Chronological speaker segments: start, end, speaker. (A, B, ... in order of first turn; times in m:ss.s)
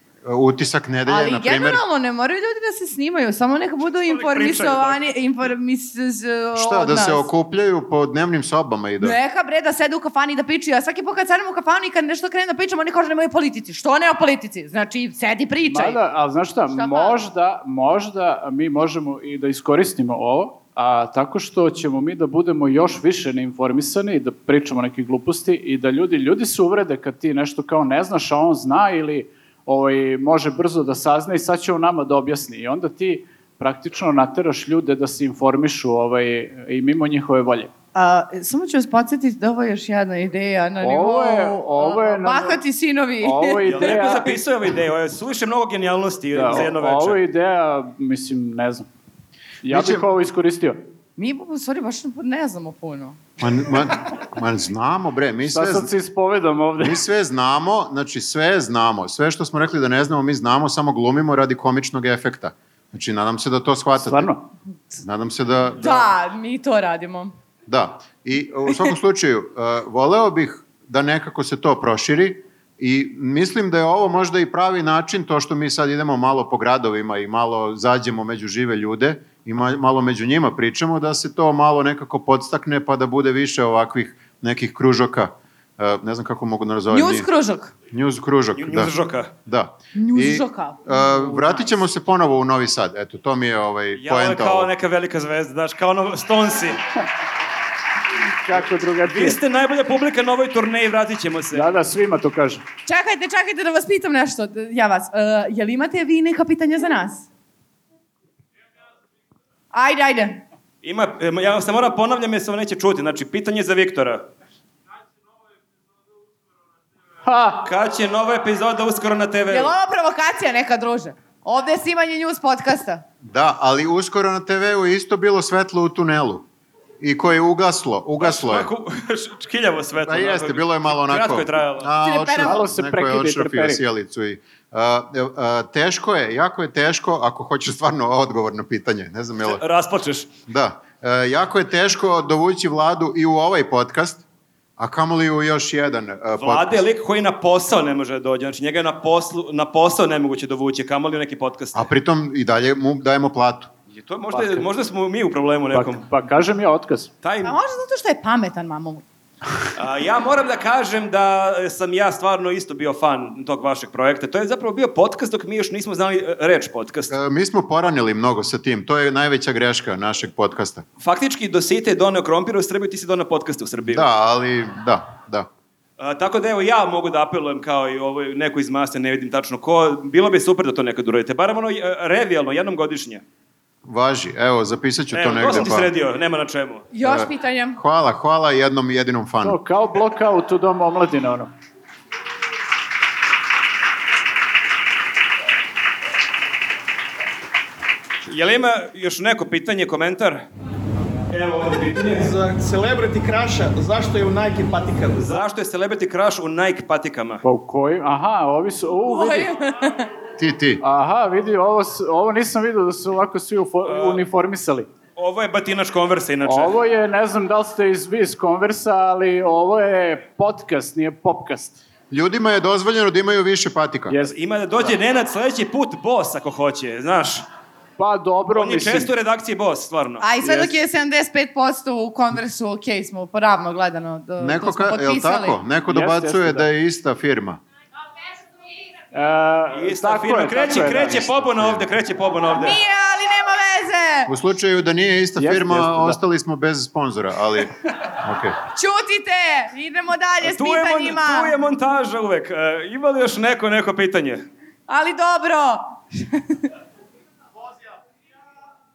0:00.2-0:01.8 A
0:01.0-0:07.2 B
0:04.0-0:05.1 C
0:06.6-0:09.2 A
0:09.0-0:16.0 B
0:15.7-0:37.7 D
0:16.7-0:17.2 B
0:37.9-0:44.4 B
0:40.8-0:42.6 D
0:43.2-0:44.4 D
0:43.6-0:47.2 C
0:46.3-0:48.9 D
0:49.6-0:50.8 D
0:49.6-0:50.1 A
0:51.2-0:53.2 B
0:53.4-0:55.9 A
0:55.5-0:57.0 D
0:56.8-1:04.3 A
1:04.0-1:04.5 D
1:05.0-1:06.1 A
1:05.8-1:07.3 B
1:07.7-1:27.3 A
1:26.9-1:27.7 B
1:27.9-1:28.9 A
1:28.6-1:29.3 C
1:29.4-1:34.7 A
1:29.9-1:31.4 B
1:33.9-1:36.8 C
1:38.4-1:39.4 D
1:39.0-1:41.7 C
1:41.5-1:42.6 D
1:42.9-1:47.3 B
1:49.7-1:50.4 B
1:50.8-1:54.2 C
1:57.2-1:57.6 D
1:57.6-1:59.7 C
1:59.5-2:03.0 B
2:03.2-2:06.4 A
2:07.0-2:08.7 A
2:08.2-2:11.9 C
2:10.0-2:19.6 A
2:12.0-2:12.6 B
2:12.4-2:13.8 D
2:19.4-2:20.3 C
2:20.5-2:24.2 A
2:24.8-2:26.8 A
2:26.4-2:31.9 C
2:31.7-2:33.7 A
2:33.9-2:36.0 C
2:34.3-2:34.6 D
2:35.7-2:37.1 D
2:37.2-2:37.6 C
2:37.4-2:39.0 B
2:39.8-2:47.1 C
2:47.1-2:50.8 A
2:51.0-2:54.1 C
2:53.9-2:55.5 A
2:56.0-3:03.2 C
3:03.8-3:05.9 A
3:05.1-3:06.9 C
3:06.9-3:07.8 B
3:07.0-3:09.6 A
3:09.4-3:11.5 D
3:18.2-3:20.4 C
3:21.3-3:22.3 C
3:22.1-3:25.4 E
3:25.2-3:27.4 C
3:27.4-3:29.5 D
3:29.0-3:30.1 B
3:30.4-3:30.8 A
3:30.8-3:34.9 D
3:33.8-3:34.2 C
3:35.2-3:36.8 C
3:36.4-3:41.8 D
3:42.1-3:44.2 A
3:44.1-3:44.4 D
3:44.3-3:47.4 C
3:48.0-3:49.1 D
3:48.5-3:50.2 C
3:50.2-3:55.6 B
3:50.4-3:50.7 D
3:54.4-3:57.6 A
3:55.9-3:56.7 D
3:59.1-4:01.2 D
3:59.7-4:02.8 C
4:01.1-4:01.8 A
4:02.5-4:04.3 B
4:04.3-4:08.6 A
4:05.4-4:06.2 D
4:08.7-4:11.5 B
4:10.4-4:14.4 C
4:14.9-4:16.6 B